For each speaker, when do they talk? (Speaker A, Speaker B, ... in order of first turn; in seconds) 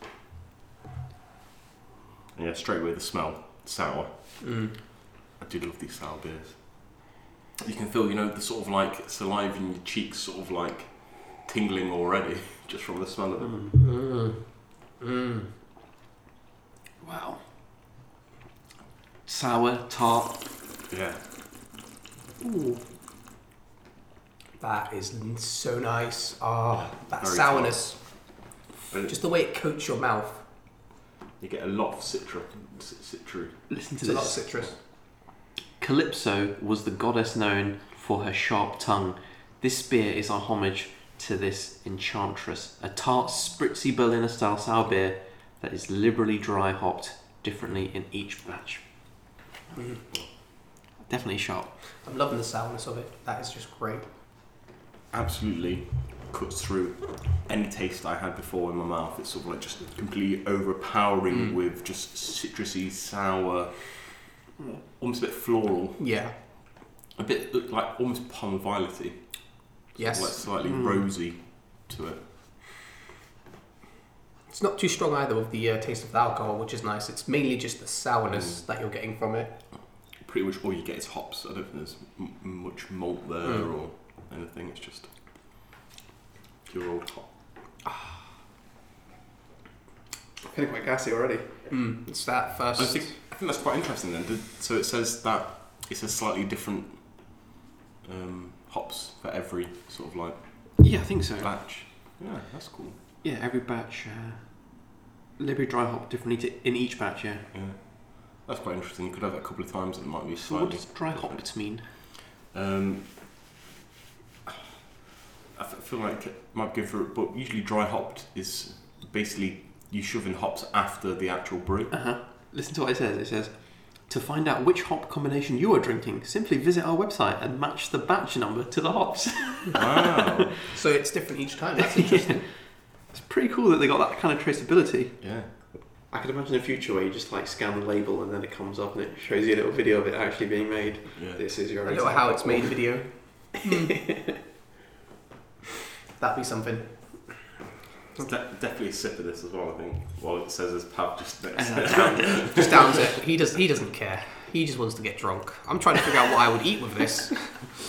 Speaker A: 2.3-4.4, 5.4-13.6, 20.9-21.2, 26.7-27.8, 31.4-33.6, 55.1-64.2, 65.0-66.0, 67.1-72.2, 80.2-85.1, 86.7-87.3, 92.8-97.4, 98.0-103.0, 107.5-113.2, 115.5-121.9, 129.7-130.6, 135.2-135.8, 141.2-141.4, 148.2-153.0
Speaker B: 4.4-4.7, 13.8-15.5, 22.4-22.8, 24.6-28.0, 29.1-30.4, 34.0-34.8, 49.7-50.0, 52.0-54.1, 61.3-61.6, 66.0-66.3, 70.0-70.3, 74.5-79.5, 91.7-93.1, 130.7-132.5, 141.8-144.3, 146.2-147.4, 152.3-157.6
Speaker C: 13.4-13.8, 17.0-17.5, 19.2-20.4, 33.7-34.4, 35.8-48.8, 51.0-51.7, 70.6-71.1, 90.5-91.7, 100.8-101.5, 103.2-104.7, 105.4-107.5, 110.5-111.9, 121.9-130.3, 131.8-135.2, 136.1-144.4, 151.5-153.0